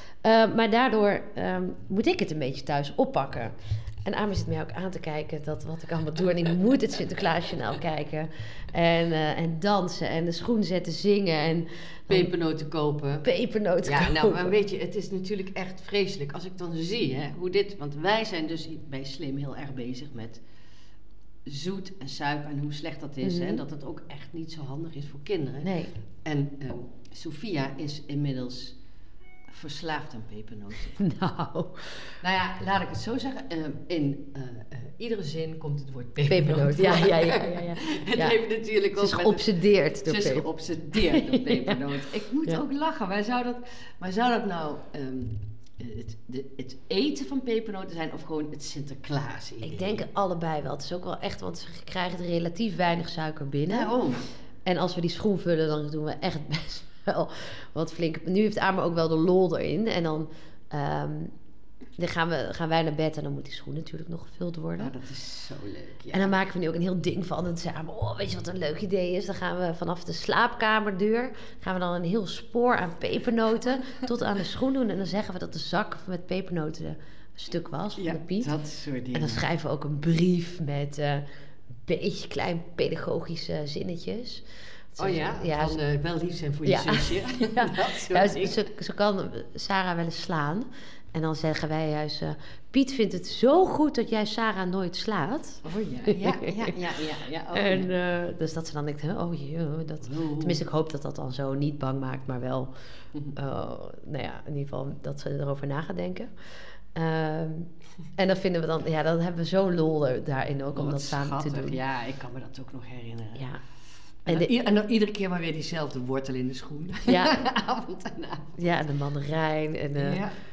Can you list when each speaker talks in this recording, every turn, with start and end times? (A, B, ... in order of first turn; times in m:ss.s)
0:00.2-0:12.3 A
0:12.1-0:13.3 B
0:13.2-0:14.5 A
0:13.8-0:20.4 B
0:21.4-0:25.7 B
0:23.2-0:23.6 A
0:25.6-0:25.9 A
0:26.2-0:28.8 B
0:29.5-0:31.0 B
0:30.9-0:32.2 A
0:32.2-0:50.0 B
0:36.3-0:38.4 A
0:39.0-0:41.8 A
0:49.6-0:53.9 A
0:53.7-0:54.2 B
0:54.6-1:01.3 A
1:02.0-1:04.9 A
1:04.8-1:06.3 B
1:06.1-1:18.5 A
1:18.0-1:19.4 B
1:19.1-1:21.2 A
1:21.8-1:25.8 A
1:25.0-1:28.6 B
1:26.6-1:36.7 A
1:35.6-1:37.9 B
1:37.5-1:42.7 A
1:40.0-1:40.6 B
1:43.3-1:51.8 A
1:50.7-1:53.5 B
1:54.2-1:58.6 B
1:57.1-1:57.4 A
1:58.6-2:00.2 A
2:00.0-2:00.3 B